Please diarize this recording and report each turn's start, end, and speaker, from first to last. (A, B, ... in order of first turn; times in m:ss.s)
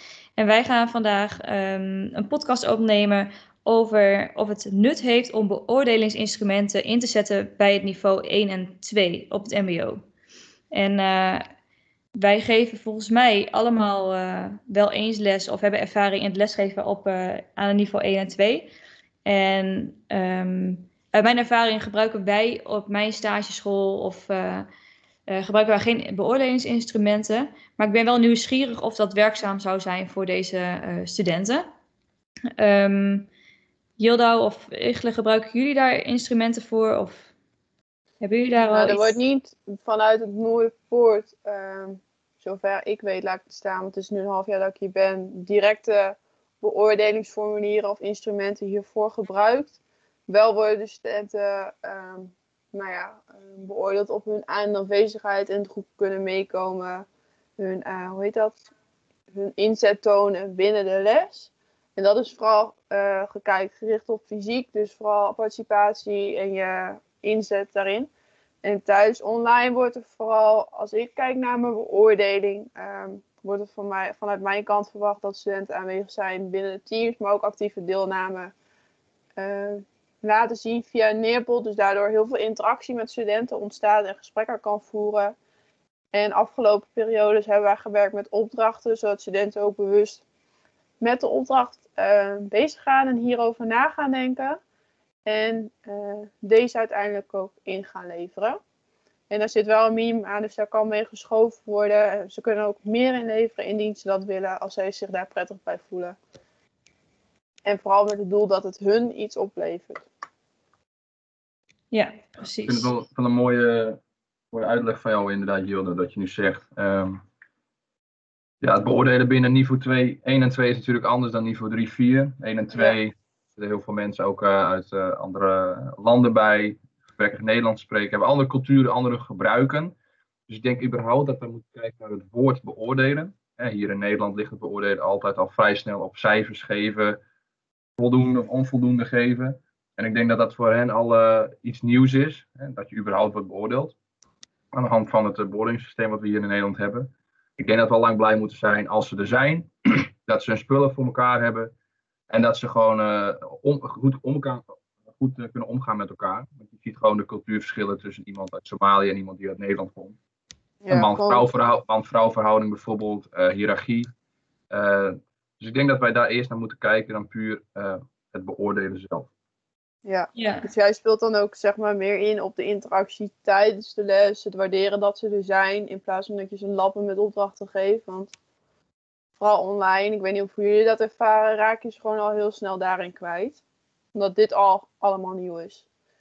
0:00.4-0:10.0 A
0:10.7-0:11.4 A
0:12.2-0:18.7 A
0:19.2-0:24.7 A
0:25.3-0:31.6 A
0:32.6-0:33.3 A
0:34.0-0:37.3 A
0:38.2-0:39.2 A
0:38.6-0:57.0 B
0:57.6-0:58.6 B
0:59.3-1:08.1 B
1:08.6-1:18.5 B
1:19.4-1:25.4 B
1:26.1-1:30.2 B
1:31.0-1:34.6 B
1:35.2-1:38.6 B
1:39.3-1:46.2 B
1:47.6-1:50.1 B
1:51.9-1:52.9 A
1:52.6-1:54.0 C
1:54.5-1:57.2 C
1:58.6-2:10.0 C
2:02.7-2:03.0 B
2:10.5-2:17.2 C
2:18.0-2:24.0 C
2:24.7-2:31.7 C
2:32.3-2:40.2 C
2:40.8-2:41.4 B
2:40.9-2:44.1 C
2:44.7-2:49.3 C
2:50.0-2:58.3 B
2:50.3-2:50.7 A
2:59.4-3:03.6 B
3:04.1-3:05.8 B